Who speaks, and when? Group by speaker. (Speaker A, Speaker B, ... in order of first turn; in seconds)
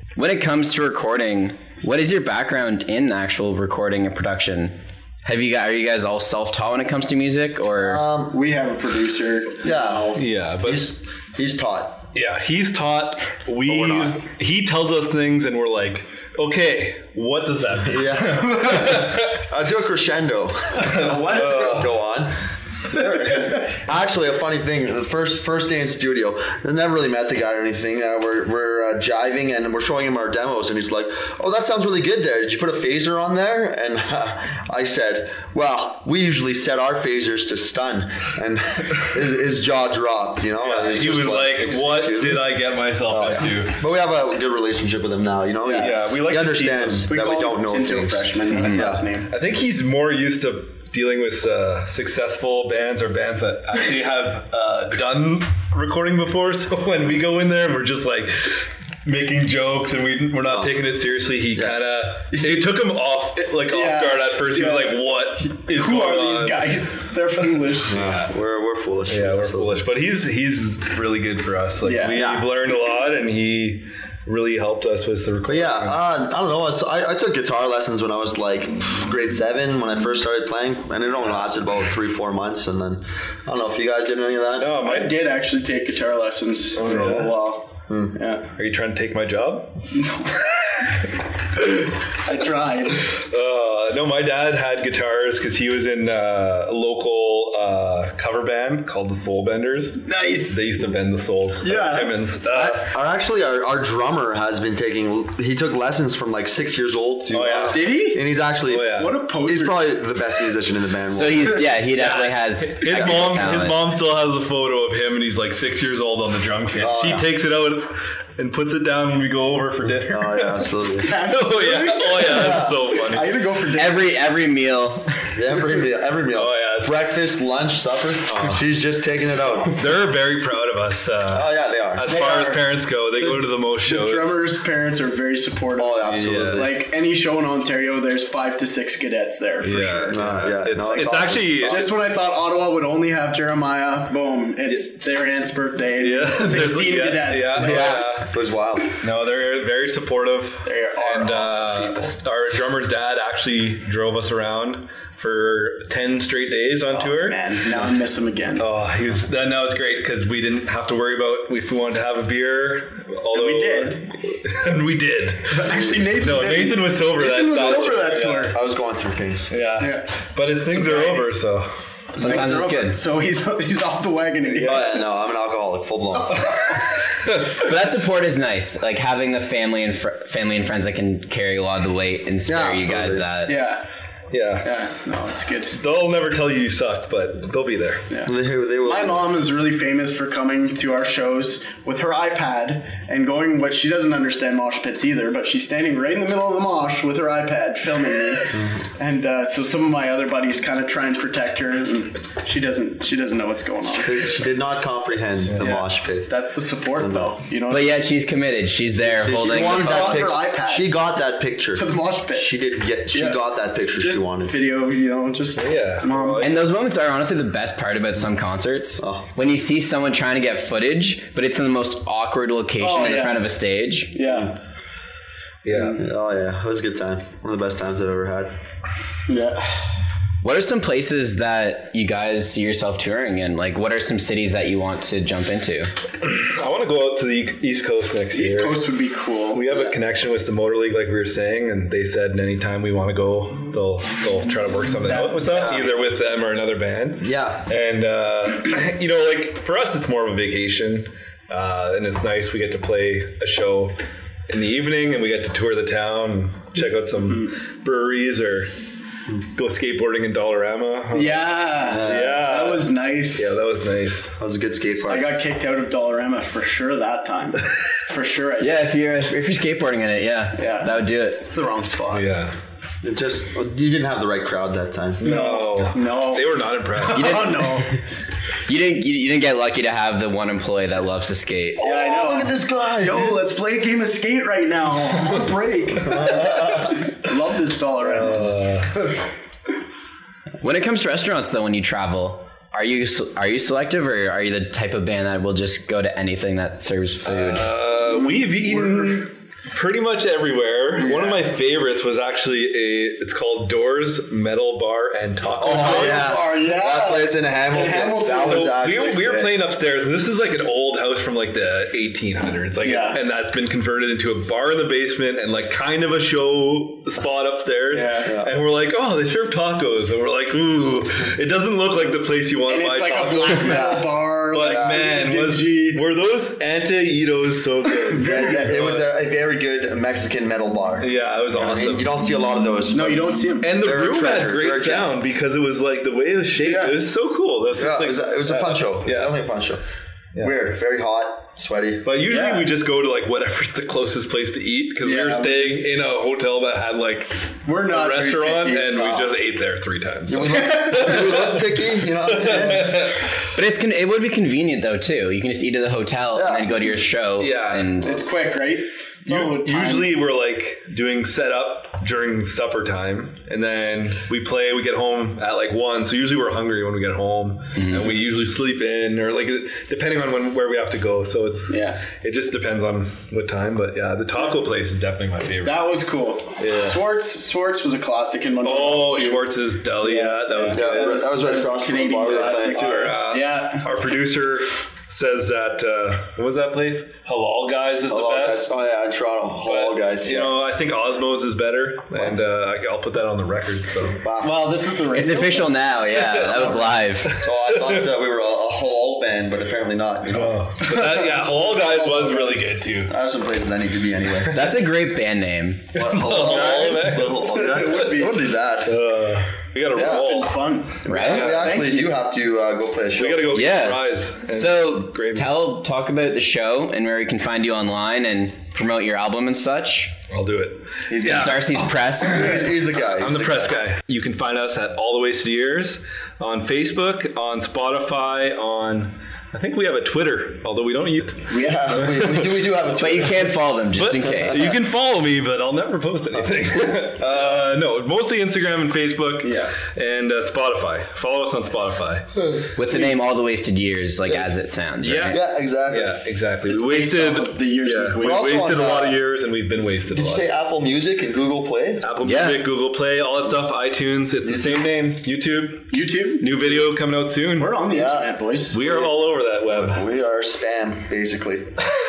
Speaker A: 0.1-8.0, 48.5-48.8, 111.1-113.8, 123.7-125.2, 172.2-173.0, 177.6-183.6, 207.7-210.3, 216.4-224.2, 230.4-235.9, 268.6-271.4, 277.1-277.8, 278.6-281.8, 290.6-297.7, 353.5-358.1, 367.8-368.1, 395.1-397.3, 404.5-405.9, 411.0-411.4, 413.5-420.1, 421.2-422.5, 432.9-434.7, 442.7-445.4, 452.2-452.6
Speaker B: 7.8-8.4, 9.6-12.0, 13.7-14.2, 17.9-42.5, 43.0-49.1, 60.5-60.7, 67.9-69.7, 72.1-72.4, 75.5-84.7, 87.9-88.2, 102.5-111.9, 112.9-113.3, 116.8-117.3, 120.1-121.1, 122.2-122.8, 125.3-129.8, 131.3-132.0, 135.8-136.7, 140.1-142.0, 147.6-148.9, 168.5-169.5, 174.6-176.5, 182.5-183.2, 188.2-189.2, 198.5-198.8, 204.0-206.3, 206.9-207.3, 209.0-214.5, 219.0-219.3, 225.9-228.5, 239.7-240.0, 245.5-246.0, 247.2-247.6, 261.9-262.4, 264.4-265.3, 273.0-275.2, 281.8-283.3, 286.1-287.0, 305.6-309.5, 318.2-318.5, 323.6-325.0, 328.2-335.1, 337.7-339.8, 340.4-342.1, 348.9-349.3, 350.3-353.1, 356.3-356.9, 380.7-383.1, 388.1-390.5, 392.1-392.4, 394.1-394.5, 397.3-400.6, 403.1-404.6, 405.9-409.1, 409.9-410.2, 411.1-413.5, 421.1-423.8, 431.6-433.5, 434.3-434.7, 445.3-446.1, 448.2-449.2, 450.1-452.0, 454.4-454.8, 457.9-458.2, 459.7-461.8
Speaker C: 8.3-9.7, 20.9-21.7, 45.6-46.0, 47.1-49.3, 62.3-62.6, 63.7-68.0, 71.8-72.9, 84.8-88.5, 90.0-90.3, 91.6-93.1, 100.0-100.6, 101.6-102.1, 107.7-108.2, 108.9-109.8, 112.0-112.2, 120.8-124.1, 132.1-132.6, 133.8-140.2, 141.6-148.0, 150.6-152.2, 156.9-158.7, 163.3-164.1, 165.5-168.6, 169.8-170.1, 170.6-171.2, 172.1-175.0, 176.1-176.9, 183.4-183.9, 184.6-185.7, 188.8-204.4, 205.6-208.0, 209.3-210.9, 211.7-212.5, 213.1-213.4, 213.9-216.5, 222.8-223.4, 224.1-224.5, 225.7-226.0, 229.3-229.8, 238.3-239.6, 261.1-263.6, 265.1-268.7, 270.6-272.3, 275.2-277.9, 281.8-288.5, 298.0-299.2, 301.0-301.4, 305.6-308.7, 312.8-313.2, 317.9-318.4, 322.7-326.0, 327.9-328.6, 332.9-333.7, 336.7-336.9, 342.3-342.7, 345.0-346.0, 347.6-349.1, 350.4-351.3, 358.0-360.1, 371.7-372.0, 375.6-379.4, 380.0-383.9, 394.4-395.8, 400.8-402.6, 406.8-408.3, 409.9-412.1, 422.4-422.6, 431.5-431.9, 439.4-439.7, 442.9-443.3, 446.6-448.6, 455.9-456.9, 457.6-459.0
Speaker D: 10.1-10.9, 12.1-19.5, 20.8-21.9, 40.6-43.8, 45.8-47.1, 49.3-66.8, 67.4-68.3, 69.1-76.0, 84.6-85.1, 86.8-87.3, 88.5-89.9, 93.1-102.9, 107.3-108.0, 108.7-109.2, 112.6-123.2, 126.3-127.0, 128.2-128.6, 129.7-134.3, 136.1-136.7, 139.6-141.9, 146.0-148.3, 148.8-158.0, 158.6-168.6, 169.5-171.8, 174.5-174.8, 176.5-177.5, 184.3-184.7, 185.7-188.1, 215.6-216.6, 225.6-226.0, 236.2-238.8, 239.5-253.9, 254.5-258.7, 259.5-264.4, 272.1-272.6, 275.2-277.5, 288.1-288.9, 297.2-306.3, 308.3-329.1, 331.0-332.1, 333.6-339.3, 340.3-340.6, 342.0-353.3, 357.4-358.2, 359.2-375.8, 376.6-377.0, 378.6-381.2, 382.4-388.7, 389.6-394.2, 396.4-396.7, 397.2-398.0, 400.3-403.1, 406.0-408.2, 408.9-411.6, 413.1-415.5, 420.3-421.7, 423.1-432.7, 433.9-442.3, 445.0-450.4, 452.0-458.1, 458.7-460.1